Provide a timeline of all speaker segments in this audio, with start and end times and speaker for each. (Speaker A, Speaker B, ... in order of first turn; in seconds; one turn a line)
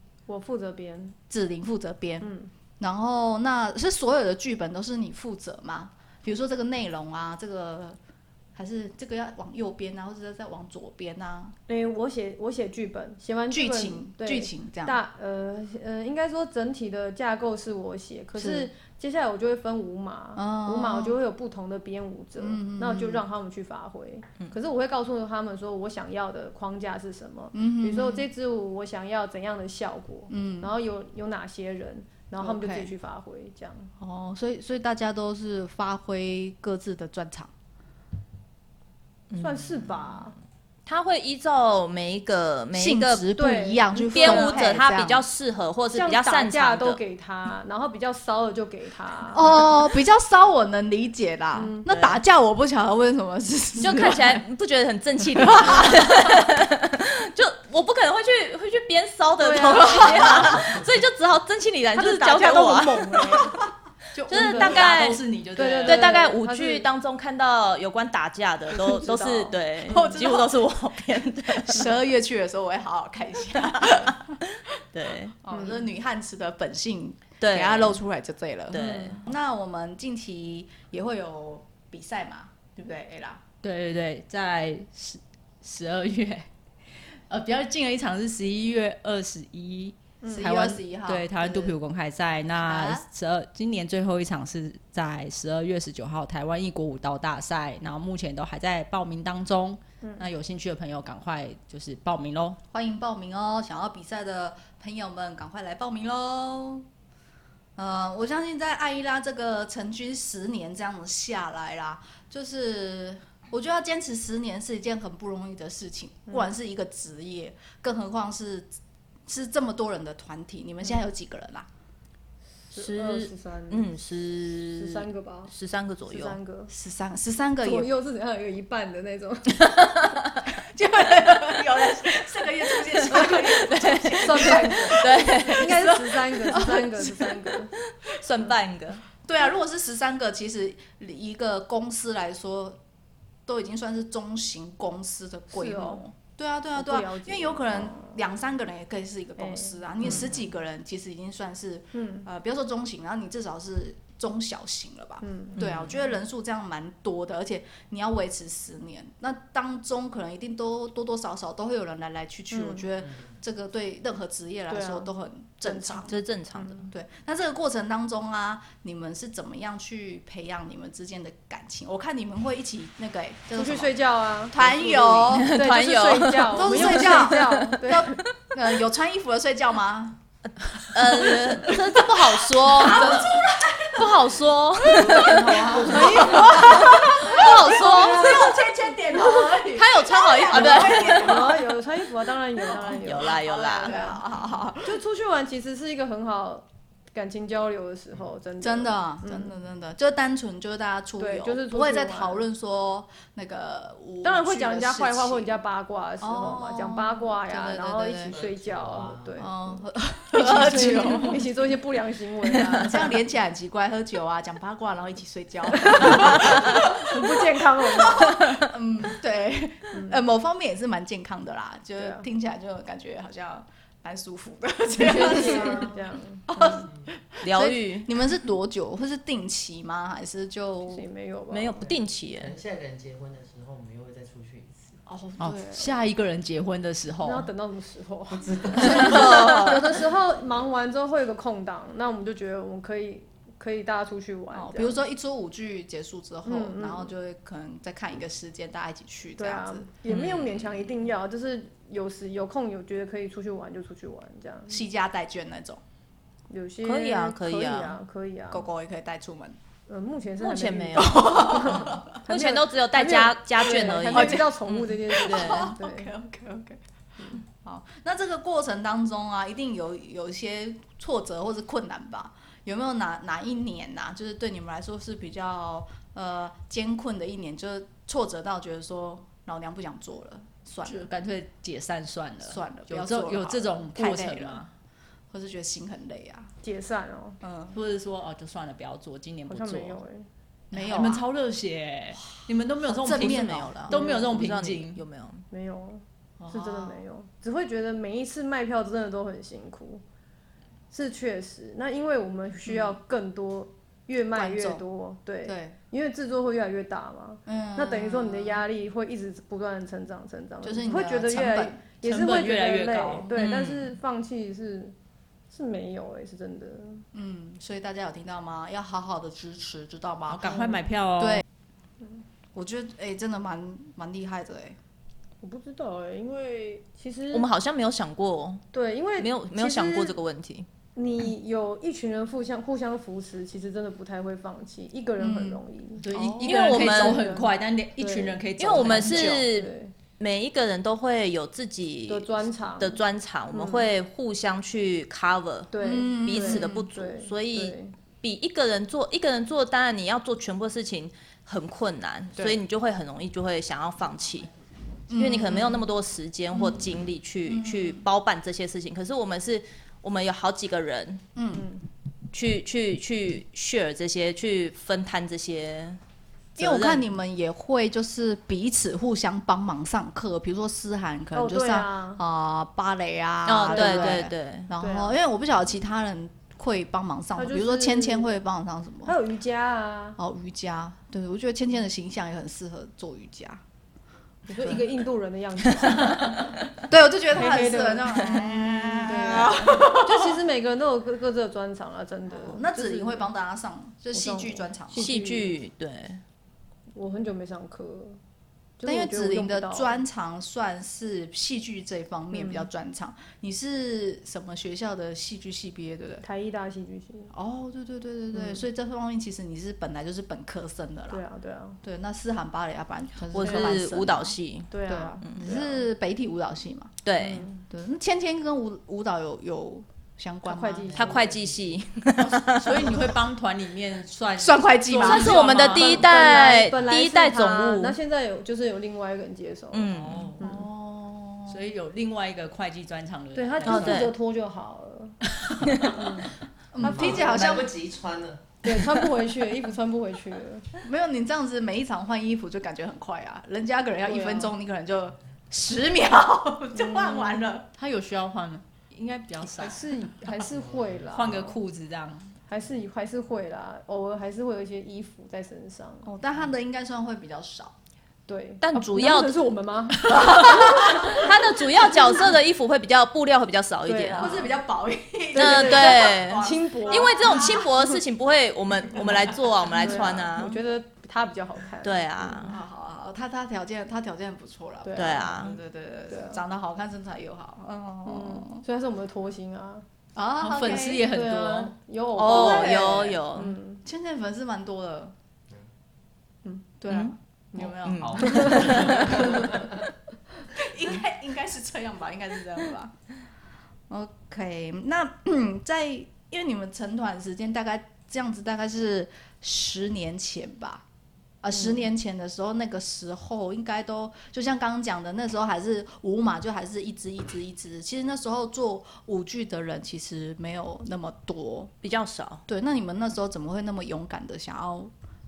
Speaker A: 0.3-1.1
Speaker B: 1.3-8.0
Speaker A: 2.2-2.5
Speaker B: 8.5-11.5
Speaker A: 11.7-33.9
Speaker B: 13.5-15.0
Speaker B: 18.4-18.7
Speaker B: 20.3-21.1
Speaker B: 22.4-23.2
Speaker B: 27.5-28.3
Speaker B: 30.3-30.7
Speaker B: 32.4-32.9
Speaker B: 34.0-37.5
Speaker C: 39.3-40.2
Speaker A: 39.3-40.3
Speaker C: 40.9-43.2
Speaker B: 42.7-45.2
Speaker A: 43.3-44.7
Speaker C: 44.1-47.0
Speaker A: 45.9-49.6
Speaker B: 49.3-54.4
Speaker A: 51.5-51.9
Speaker C: 51.9-52.2
Speaker C: 53.8-63.4
Speaker B: 55.4-56.5
Speaker A: 59.4-60.7
Speaker B: 59.8-60.6
Speaker A: 61.9-63.6
Speaker D: 64.1-66.1
Speaker C: 64.3-65.2
Speaker A: 64.3-65.0
Speaker A: 65.5-66.8
Speaker C: 65.8-71.9
Speaker A: 68.8-70.2
Speaker B: 69.9-70.6
Speaker B: 71.6-74.4
Speaker C: 74.9-75.3
Speaker B: 75.4-83.4
Speaker A: 75.5-75.8
Speaker C: 77.4-78.0
Speaker C: 78.7-79.2
Speaker A: 78.8-79.2
Speaker D: 83.6-86.5
Speaker D: 87.3-102.6
Speaker A: 90.2-90.5
Speaker B: 90.3-91.8
Speaker B: 92.6-93.0
Speaker B: 102.7-106.9
Speaker B: 107.8-118.7
Speaker A: 116.3-116.5
Speaker B: 119.3-121.7
Speaker A: 122.7-123.9
Speaker C: 122.7-126.4
Speaker A: 124.7-125.5
Speaker A: 126.1-126.7
Speaker B: 126.7-127.9
Speaker A: 127.6-129.8
Speaker B: 130.4-137.5
Speaker C: 133.0-135.9
Speaker A: 134.2-137.7
Speaker C: 137.8-139.0
Speaker B: 139.2-142.8
Speaker B: 143.5-166.1
Speaker A: 145.5-146.0
Speaker A: 146.8-148.2
Speaker A: 149.4-150.3
Speaker C: 150.0-150.3
Speaker A: 151.9-152.3
Speaker A: 155.2-155.6
Speaker A: 162.5-162.8
Speaker E: 163.0-163.3
Speaker A: 164.7-165.1
Speaker A: 165.6-166.9
Speaker C: 166.1-166.9
Speaker B: 166.9-173.9
Speaker A: 173.5-178.2
Speaker B: 174.5-175.6
Speaker C: 175.3-177.7
Speaker B: 176.5-180.2
Speaker C: 180.8-183.3
Speaker B: 180.9-191.8
Speaker C: 183.9-188.5
Speaker A: 185.2-189.6
Speaker C: 189.7-191.6
Speaker A: 190.5-194.2
Speaker B: 192.7-195.0
Speaker C: 192.7-193.9
Speaker A: 194.8-199.5
Speaker B: 198.6-205.6
Speaker A: 201.2-202.4
Speaker A: 204.2-213.2
Speaker B: 206.2-208.3
Speaker E: 208.3-209.4
Speaker B: 209.4-211.5
Speaker B: 212.4-226.0
Speaker A: 215.7-218.6
Speaker A: 219.9-220.2
Speaker A: 222.0-222.3
Speaker A: 225.0-226.9
Speaker E: 225.2-225.8
Speaker B: 226.5-231.1
Speaker C: 227.4-228.1
Speaker A: 230.9-231.9
Speaker C: 231.5-232.6
Speaker E: 232.4-235.0
Speaker B: 235.1-235.9
Speaker D: 235.4-237.5
Speaker A: 237.2-245.0
Speaker E: 238.3-239.6
Speaker B: 238.8-240.0
Speaker B: 244.5-249.9
Speaker A: 246.4-247.1
Speaker A: 249.4-254.8
Speaker C: 250.1-250.7
Speaker B: 254.7-255.8
Speaker A: 256.5-258.7
Speaker C: 256.8-258.0
Speaker B: 258.5-259.6
Speaker A: 259.9-266.1
Speaker C: 260.4-265.7
Speaker B: 260.9-262.2
Speaker B: 263.6-266.8
Speaker B: 267.3-281.1
Speaker D: 280.8-284.7
Speaker B: 282.4-284.6
Speaker B: 285.3-286.5
Speaker A: 286.6-287.4
Speaker B: 287.4-287.8
Speaker D: 287.7-290.0
Speaker A: 289.5-290.3
Speaker B: 290.7-291.2
Speaker D: 290.7-295.0
Speaker B: 292.2-294.4
Speaker C: 293.1-295.4
Speaker A: 293.9-294.3
Speaker A: 295.5-300.0
Speaker B: 296.4-297.0
Speaker A: 300.9-314.9
Speaker B: 302.7-302.9
Speaker B: 304.3-304.8
Speaker B: 305.4-305.8
Speaker B: 307.4-308.6
Speaker B: 310.6-311.9
Speaker D: 312.0-313.4
Speaker C: 313.4-313.9
Speaker A: 315.5-317.1
Speaker B: 317.1-321.4
Speaker D: 320.3-321.4
Speaker B: 322.5-324.8
Speaker A: 325.4-327.4
Speaker C: 327.3-328.7
Speaker A: 328.7-330.2
Speaker C: 329.2-330.7
Speaker A: 330.9-336.0
Speaker B: 335.2-336.9
Speaker D: 336.0-339.4
Speaker C: 336.4-337.2
Speaker A: 336.7-339.9
Speaker C: 338.6-354.5
Speaker A: 342.1-343.0
Speaker A: 343.5-343.9
Speaker A: 345.7-347.9
Speaker B: 345.8-346.9
Speaker B: 352.3-352.6
Speaker B: 355.1-355.9
Speaker C: 355.1-361.2
Speaker B: 356.5-356.9
Speaker B: 357.4-358.0
Speaker B: 361.3-361.6
Speaker A: 361.5-361.8
Speaker C: 362.3-366.0
Speaker C: 366.6-367.0
Speaker B: 366.6-379.1
Speaker A: 371.3-372.2
Speaker C: 373.4-374.7
Speaker A: 373.7-375.1
Speaker A: 377.4-378.3
Speaker A: 379.0-380.2
Speaker B: 380.2-383.6
Speaker A: 384.5-386.5
Speaker B: 386.9-390.4
Speaker A: 387.3-393.3
Speaker C: 388.1-388.5
Speaker B: 392.3-395.2
Speaker A: 394.1-395.6
Speaker C: 394.9-396.2
Speaker A: 396.9-398.2
Speaker A: 398.8-400.0
Speaker B: 398.8-406.2
Speaker A: 402.3-402.7
Speaker A: 406.2-407.3
Speaker B: 407.3-411.2
Speaker A: 408.3-408.6
Speaker A: 411.1-411.8
Speaker B: 411.8-416.9
Speaker C: 413.3-414.7
Speaker A: 413.4-413.8
Speaker A: 414.7-415.9
Speaker C: 415.2-415.5
Speaker C: 417.0-417.5
Speaker A: 417.2-417.6
Speaker B: 417.7-420.9
Speaker A: 420.4-421.3
Speaker E: 420.9-421.8
Speaker C: 420.9-422.9
Speaker D: 422.2-426.1
Speaker B: 424.4-425.5
Speaker C: 424.9-428.0
Speaker A: 425.1-430.7
Speaker C: 429.7-430.4
Speaker D: 429.9-430.4
Speaker B: 430.4-431.6
Speaker D: 431.5-434.1
Speaker A: 433.3-435.2
Speaker C: 433.6-434.1
Speaker D: 435.3-435.8
Speaker A: 435.8-437.6
Speaker B: 436.7-437.7
Speaker E: 436.8-438.5
Speaker A: 438.6-440.7
Speaker B: 440.8-447.7
Speaker A: 444.0-444.5
Speaker A: 446.7-447.4
Speaker D: 447.8-449.9
Speaker A: 449.5-451.6
Speaker E: 450.4-451.0
Speaker D: 451.1-452.3
Speaker A: 452.5-456.1
Speaker B: 456.0-457.7
Speaker A: 458.3-461.3
Speaker C: 458.6-459.4
Speaker B: 460.1-461.2
Speaker C: 460.3-464.5
Speaker A: 463.9-464.6
Speaker B: 464.1-467.7
Speaker A: 465.3-467.9
Speaker C: 465.3-470.6
Speaker A: 469.7-472.5
Speaker C: 471.8-472.6
Speaker B: 472.4-478.6
Speaker A: 474.8-475.4
Speaker C: 474.9-475.6
Speaker A: 476.1-476.4
Speaker A: 478.0-479.8
Speaker B: 480.1-481.1
Speaker D: 480.4-481.7
Speaker A: 480.9-483.8
Speaker C: 482.1-483.6
Speaker B: 482.2-485.1
Speaker B: 486.8-489.6
Speaker C: 486.9-489.4
Speaker A: 487.6-489.4
Speaker E: 488.0-489.8
Speaker B: 490.5-492.9
Speaker B: 493.9-500.8
Speaker B: 501.4-511.7
Speaker C: 511.8-512.4
Speaker B: 512.5-514.9